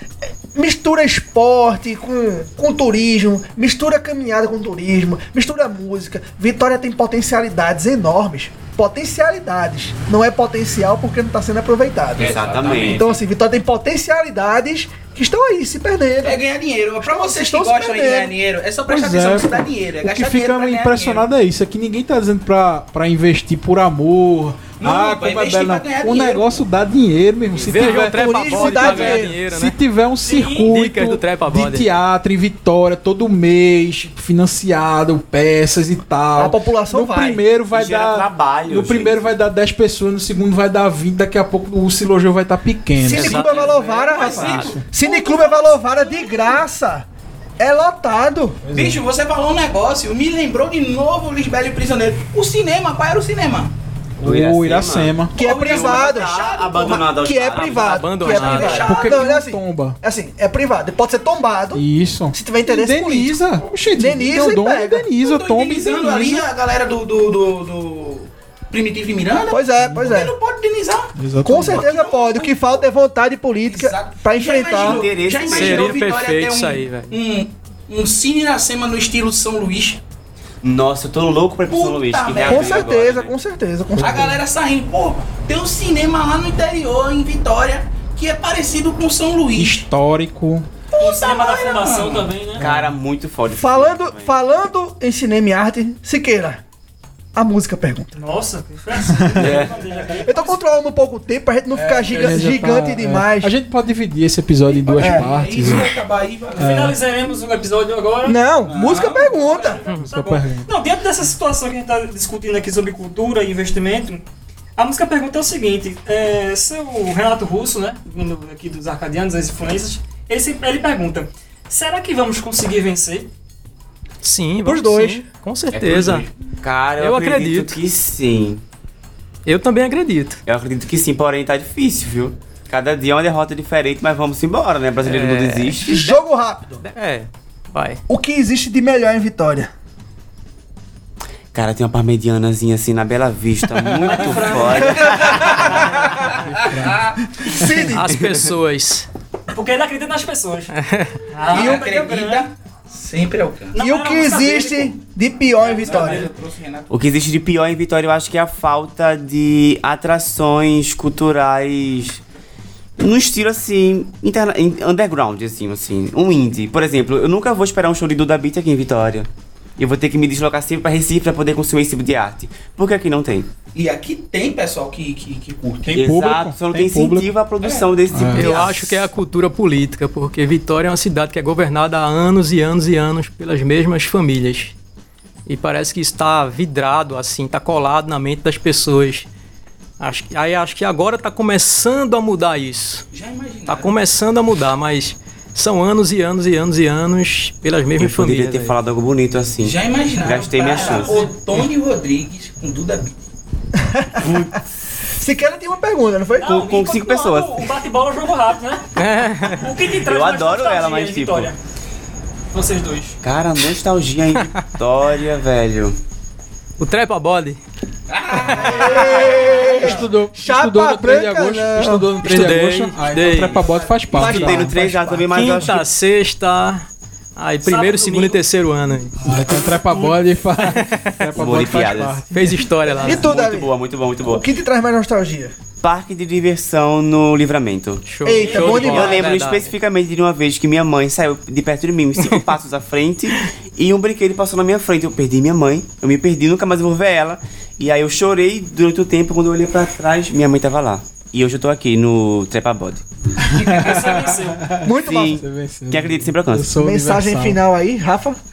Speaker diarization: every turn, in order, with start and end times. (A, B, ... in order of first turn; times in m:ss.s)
0:00.5-0:16.4 A
0:12.1-0:13.2 B
0:12.2-0:13.1 C
0:16.2-0:21.2 B
0:17.0-0:18.3 A
0:18.9-0:43.5 D
0:24.8-0:26.6 B
0:27.5-0:29.8 E
0:27.8-0:29.4 A
0:30.2-0:30.7 F
0:30.7-0:31.9 E
0:36.4-0:37.4 A
0:37.7-0:39.3 C
0:43.0-0:47.0 A
0:43.0-0:44.8 E
0:43.5-0:46.6 B
0:44.5-0:44.8 D
0:47.6-0:48.7 A
0:48.6-0:49.0 D
0:48.7-0:53.7 B
0:54.2-0:55.3 D
0:54.2-0:58.1 C
0:55.4-0:57.1 B
0:55.4-1:05.1 A
0:57.5-0:58.9 E
0:58.2-0:59.3 B
0:58.8-1:00.0 D
1:01.7-1:06.5 D
1:05.2-1:12.9 B
1:09.5-1:10.3 A
1:09.8-1:10.1 D
1:11.2-1:11.9 D
1:11.4-1:15.0 A
1:13.6-1:20.0 B
1:14.8-1:15.9 C
1:15.5-1:17.2 E
1:20.6-1:23.3 C
1:21.6-1:23.0 B
1:22.4-1:24.4 A
1:24.0-1:24.3 D
1:24.0-1:29.8 B
1:29.5-1:30.7 D
1:30.9-1:32.3 B
1:31.0-1:32.6 F
1:32.6-1:34.4 C
1:32.6-1:32.9 D
1:33.5-1:36.6 A
1:37.3-1:38.1 A
1:38.1-1:40.6 F
1:39.2-1:39.5 D
1:39.3-1:39.8 C
1:40.2-1:43.5 A
1:41.7-1:46.0 D
1:44.6-1:46.9 B
1:45.0-1:45.3 A
1:46.5-1:48.4 F
1:46.6-1:47.0 D
1:48.2-1:49.8 A
1:48.6-1:49.8 B
1:49.4-1:54.2 F
1:50.0-1:50.7 D
1:54.8-2:03.3 F
2:04.2-2:06.2 E
2:04.6-2:05.2 A
2:05.8-2:08.6 C
2:07.0-2:07.8 E
2:09.4-2:10.4 E
2:10.4-2:16.0 C
2:15.0-2:16.2 E
2:15.9-2:16.8 A
2:16.8-2:18.0 E
2:18.1-2:19.7 A
2:21.5-2:25.9 C
2:24.0-2:25.6 F
2:25.0-2:25.6 B
2:26.1-2:27.2 B
2:26.3-2:27.8 D
2:27.4-2:28.1 A
2:27.8-2:29.1 E
2:28.1-2:28.4 C
2:29.5-2:30.7 F
2:30.7-2:31.2 E
2:31.3-2:32.4 F
2:31.5-2:33.8 B
2:31.5-2:31.8 A
2:33.7-2:34.9 F
2:33.8-2:36.2 A
2:35.6-2:36.3 F
2:35.7-2:36.9 B
2:36.9-2:42.2 C
2:43.0-2:53.5 C
2:53.7-2:56.2 B
2:55.9-2:57.3 D
2:55.9-2:59.1 C
2:57.6-2:57.9 B
2:58.1-2:58.6 D
2:58.3-3:04.7 E
3:05.5-3:09.3 E
3:10.0-3:13.0 E
3:13.1-3:13.9 B
3:13.7-3:18.8 E
3:18.0-3:21.2 C
3:19.6-3:23.2 B
3:20.5-3:21.3 F
3:23.8-3:24.5 A
3:24.2-3:24.6 C
3:25.1-3:26.5 A
3:26.4-3:28.9 F
3:26.4-3:27.6 C
3:29.0-3:29.7 E
3:29.4-3:31.6 F
3:30.0-3:31.5 C
3:32.5-3:33.2 F
3:33.2-3:36.0 C
3:36.8-3:37.6 E
3:38.1-3:39.7 B
3:38.6-3:42.1 A
3:39.7-3:40.0 F
3:39.7-3:44.8 D
3:42.2-3:43.7 E
3:43.1-3:44.3 B
3:44.1-3:45.8 C
3:44.2-3:45.3 A
3:45.3-3:46.8 E
3:47.4-3:49.2 E
3:47.6-3:48.4 F
3:49.2-3:52.7 D
3:49.2-3:50.2 F
3:50.7-3:51.2 E
3:51.3-3:52.2 C
3:52.3-3:53.3 E
3:53.0-3:54.4 C
3:53.0-3:55.5 A
3:55.8-4:13.0 C
3:58.1-3:59.7 E
3:58.2-3:59.3 A
4:13.4-4:17.6 D
4:13.5-4:14.6 F
4:14.8-4:15.4 A
4:15.0-4:16.7 C
4:16.8-4:18.4 A